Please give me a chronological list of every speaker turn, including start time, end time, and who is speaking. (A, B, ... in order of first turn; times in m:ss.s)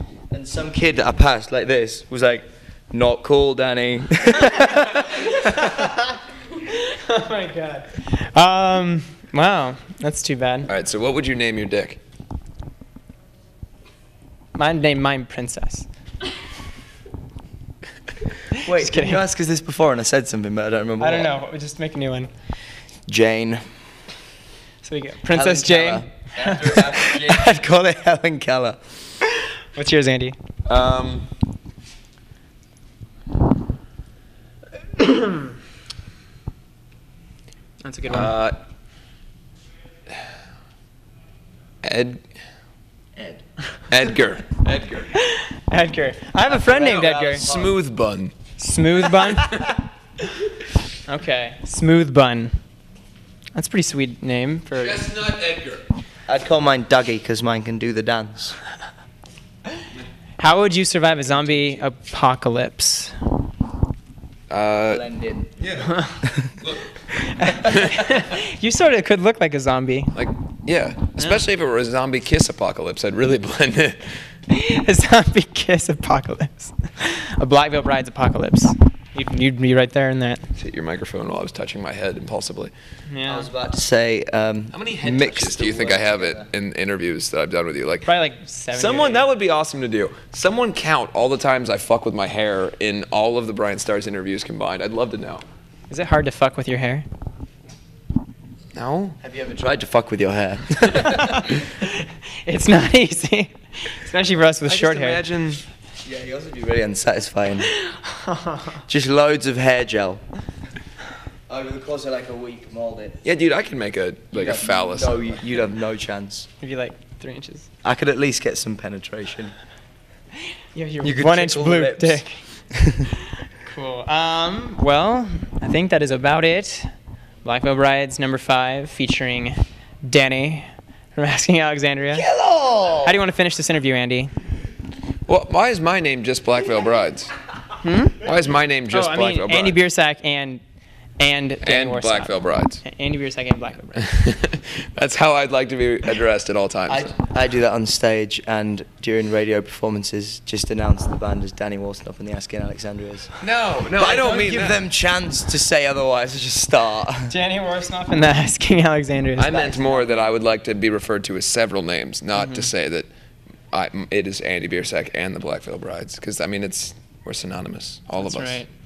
0:00.3-0:05.1 A
0:04.5-0:10.7 B
0:10.6-0:12.0 C
0:14.5-0:15.9 B
0:18.6-0:19.2 B
0:18.6-0:21.3 A
0:21.0-0:22.3 B
0:23.1-0:23.6 A
0:24.8-0:26.8 B
0:25.3-0:26.1 A
0:26.3-0:27.6 C
0:27.0-0:28.8 A
0:29.7-0:30.4 B
0:30.6-0:31.2 C
0:35.0-0:35.5 B
0:37.8-0:38.3 B
0:38.1-0:38.5 C
0:41.8-0:42.2 C
0:43.2-0:43.4 A
0:43.9-0:45.1 C
0:45.2-0:47.4 B
0:46.5-0:47.8 A
0:47.3-0:48.3 C
0:48.6-0:49.7 B
0:49.2-0:49.7 C
0:51.0-0:52.6 B
0:53.5-0:55.0 B
0:54.8-0:55.8 C
0:56.3-0:58.6 A
1:00.4-1:03.1 B
1:01.3-1:01.8 C
1:04.5-1:05.0 C
1:04.9-1:05.5 A
1:05.6-1:06.0 C
1:05.8-1:06.3 B
1:06.6-1:08.2 C
1:07.2-1:10.1 B
1:10.1-1:14.2 C
1:14.5-1:20.4 B
1:20.6-1:22.7 C
1:23.1-1:23.5 B
1:23.2-1:26.5 A
1:24.7-1:28.1 C
1:28.0-1:29.3 B
1:28.7-1:35.4 C
1:35.9-1:37.0 B
1:38.7-1:39.2 C
1:39.2-1:41.4 A
1:40.9-1:45.2 B
1:44.7-1:45.6 C
1:46.0-1:47.7 A
1:47.8-1:48.8 B
1:48.9-1:50.2 A
1:51.5-1:53.2 A
1:53.2-1:55.4 C
1:54.3-1:56.5 A
1:56.6-1:57.7 B
1:57.8-1:59.5 A
2:00.7-2:02.4 B
2:01.0-2:03.1 A
2:03.6-2:06.9 B
2:07.4-2:12.2 B
2:12.1-2:13.2 A
2:13.0-2:14.3 B
2:15.3-2:17.3 C
2:17.8-2:18.2 B
2:18.2-2:19.8 C
2:18.9-2:20.6 B
2:21.2-2:24.0 B
2:21.6-2:22.8 C
2:24.0-2:27.1 C
2:26.9-2:33.3 A
2:33.4-2:34.8 C
2:34.0-2:37.3 A
2:37.3-2:39.7 B
2:39.4-2:43.1 C
2:39.4-2:40.3 A
2:42.4-2:42.7 B
2:43.7-2:48.6 C
2:48.2-2:48.7 B